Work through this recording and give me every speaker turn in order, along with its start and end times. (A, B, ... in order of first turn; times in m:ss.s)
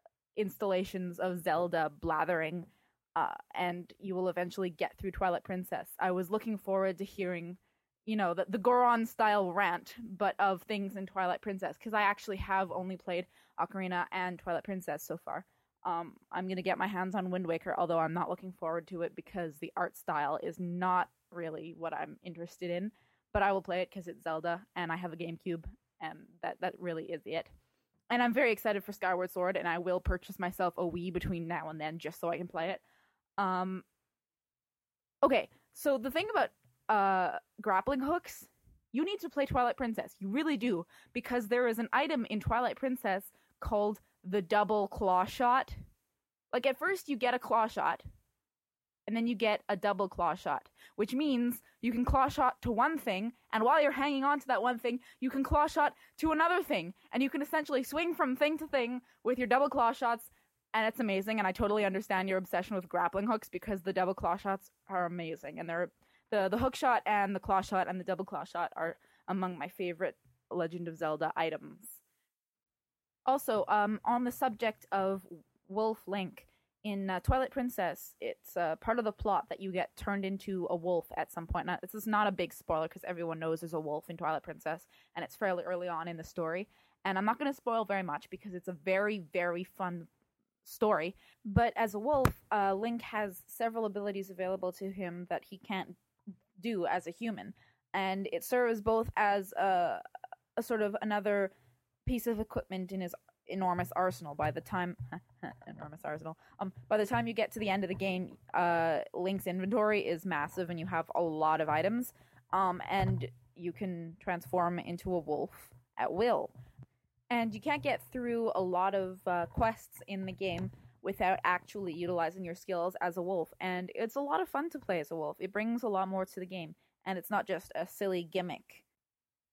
0:00.4-0:27.5 A
0:28.1-0:32.8 A
0:33.4-0:33.8 A
0:35.2-0:45.8 A
0:46.5-0:48.0 A
0:49.1-1:12.0 A
1:13.2-1:30.1 A
1:30.6-1:36.0 A
1:36.6-1:40.0 A
1:40.6-1:41.5 A
1:42.0-1:56.5 A
1:57.3-2:08.8 A